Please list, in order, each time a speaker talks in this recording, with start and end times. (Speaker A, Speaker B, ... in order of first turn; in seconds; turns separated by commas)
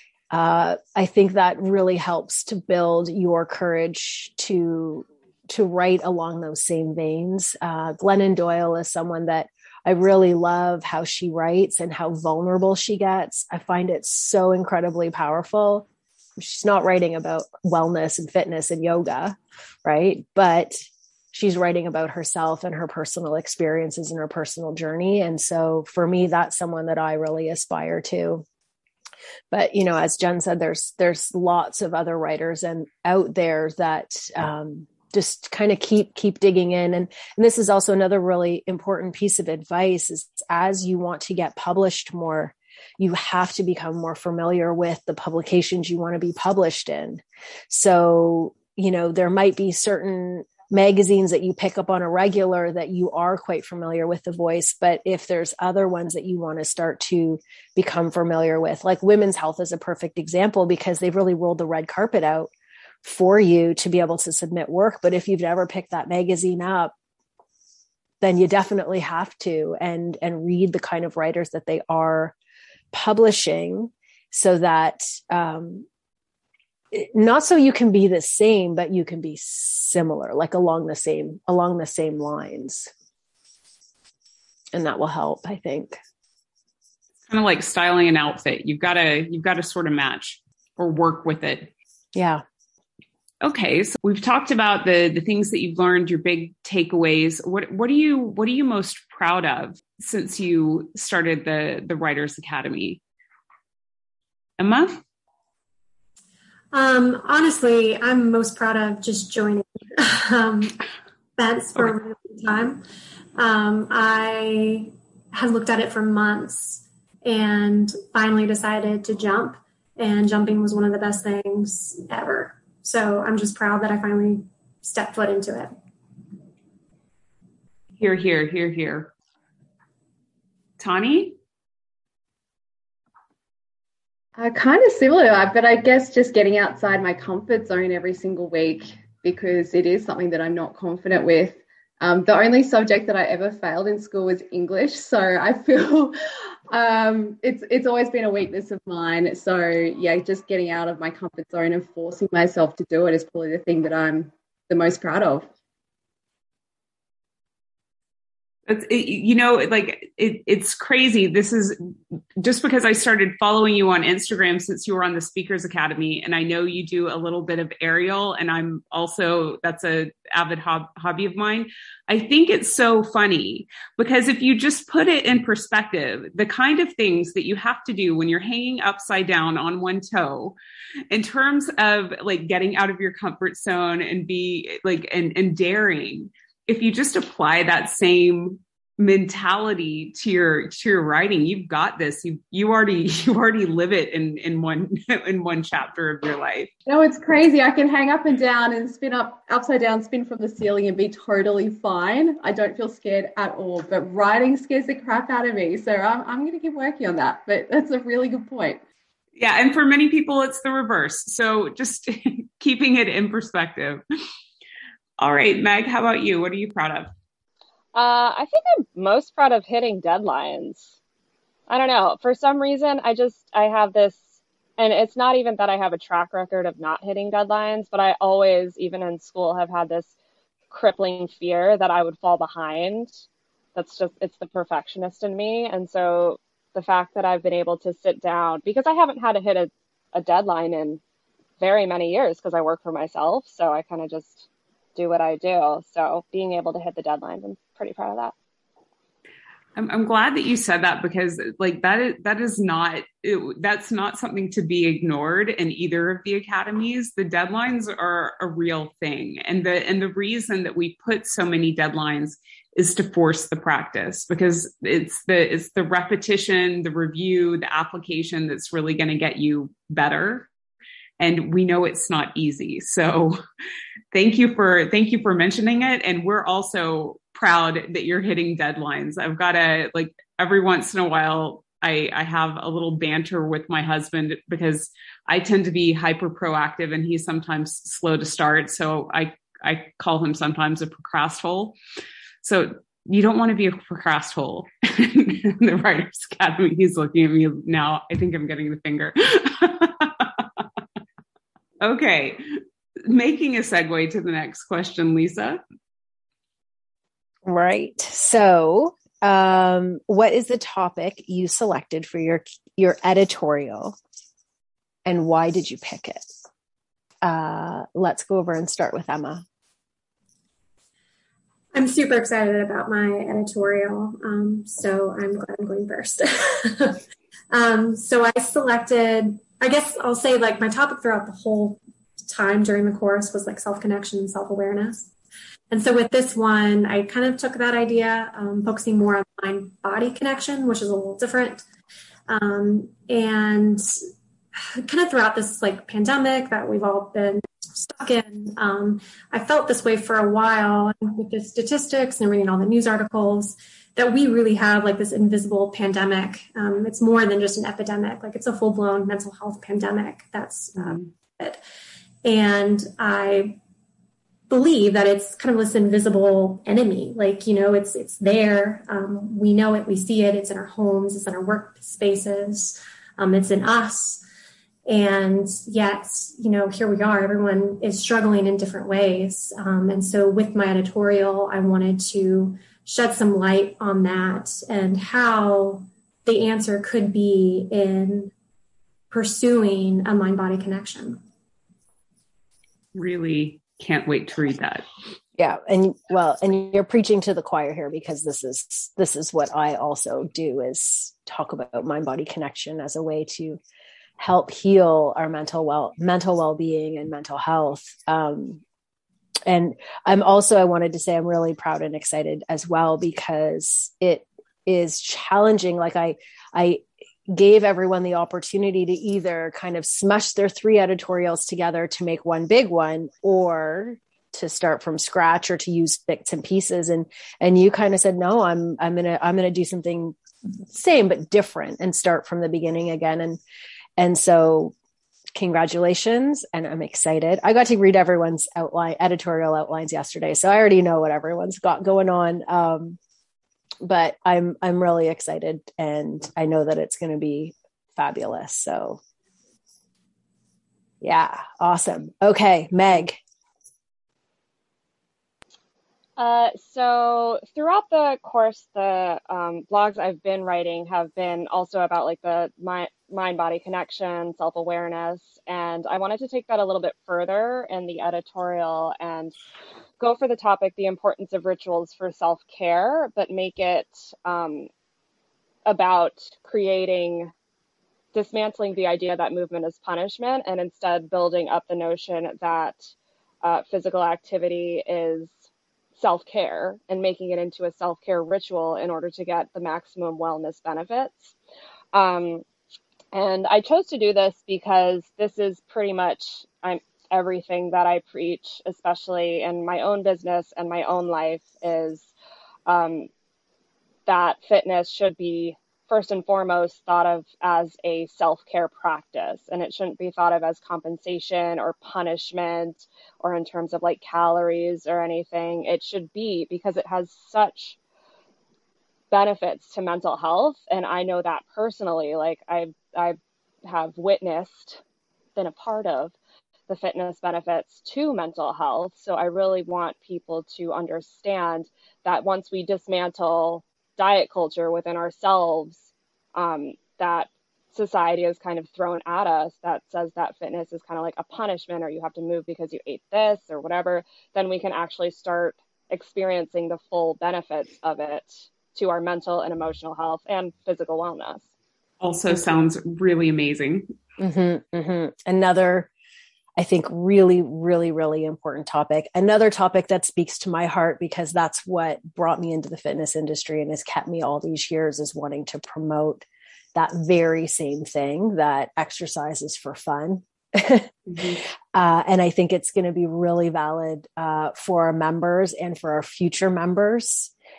Speaker A: 0.3-28.4, Speaker A: 29.5-62.5, Speaker A: 63.0-66.9, Speaker A: 68.2-72.3, Speaker A: 72.9-75.8, Speaker A: 76.9-82.9, Speaker A: 84.7-86.0, Speaker B: 87.3-91.7, Speaker A: 92.1-92.4, Speaker B: 93.4-103.0, Speaker B: 104.6-105.0, Speaker C: 106.7-110.8, Speaker C: 111.4-112.8, Speaker C: 113.3-125.7, Speaker B: 128.0-129.1, Speaker B: 130.8-131.3, Speaker D: 134.4-146.1, Speaker D: 146.7-155.5, Speaker B: 158.7-161.8, Speaker B: 162.4-180.6, Speaker B: 181.1-196.7, Speaker D: 196.9-208.8, Speaker B: 209.4-214.0, Speaker B: 215.2-217.1, Speaker E: 217.9-220.9, Speaker E: 221.7-230.1, Speaker E: 230.7-233.2, Speaker E: 233.8-241.0, Speaker E: 241.6-248.3, Speaker B: 249.8-270.5, Speaker B: 271.2-273.4, Speaker B: 274.1-291.8, Speaker B: 292.4-300.4, Speaker B: 301.8-305.6, Speaker A: 307.4-313.9, Speaker A: 315.1-316.3, Speaker A: 317.2-319.4, Speaker C: 321.7-335.1, Speaker C: 335.7-341.6, Speaker C: 342.3-343.9, Speaker C: 344.5-361.6, Speaker C: 362.2-363.6, Speaker C: 364.5-374.2, Speaker C: 374.9-388.3, Speaker C: 389.1-391.2, Speaker B: 392.9-394.9, Speaker A: 395.4-403.6, Speaker A: 404.2-408.6, Speaker A: 409.4-433.4, Speaker A: 434.0-434.7, Speaker A: 435.3-443.0, Speaker A: 443.8-449.0, Speaker A: 451.0-453.2, Speaker E: 456.2-469.3, Speaker E: 470.0-474.7, Speaker E: 475.6-477.3, Speaker E: 478.1-482.9, Speaker E: 483.4-485.3, Speaker E: 486.0-491.3, Speaker E: 491.9-492.4, Speaker E: 493.1-502.1, Speaker E: 502.6-503.1, Speaker E: 504.1-517.8, Speaker E: 519.1-524.8, Speaker E: 525.4-526.1, Speaker E: 526.7-551.5, Speaker B: 552.0-553.9, Speaker A: 554.2-555.9, Speaker A: 556.5-570.9, Speaker B: 571.1-571.4, Speaker A: 571.7-577.3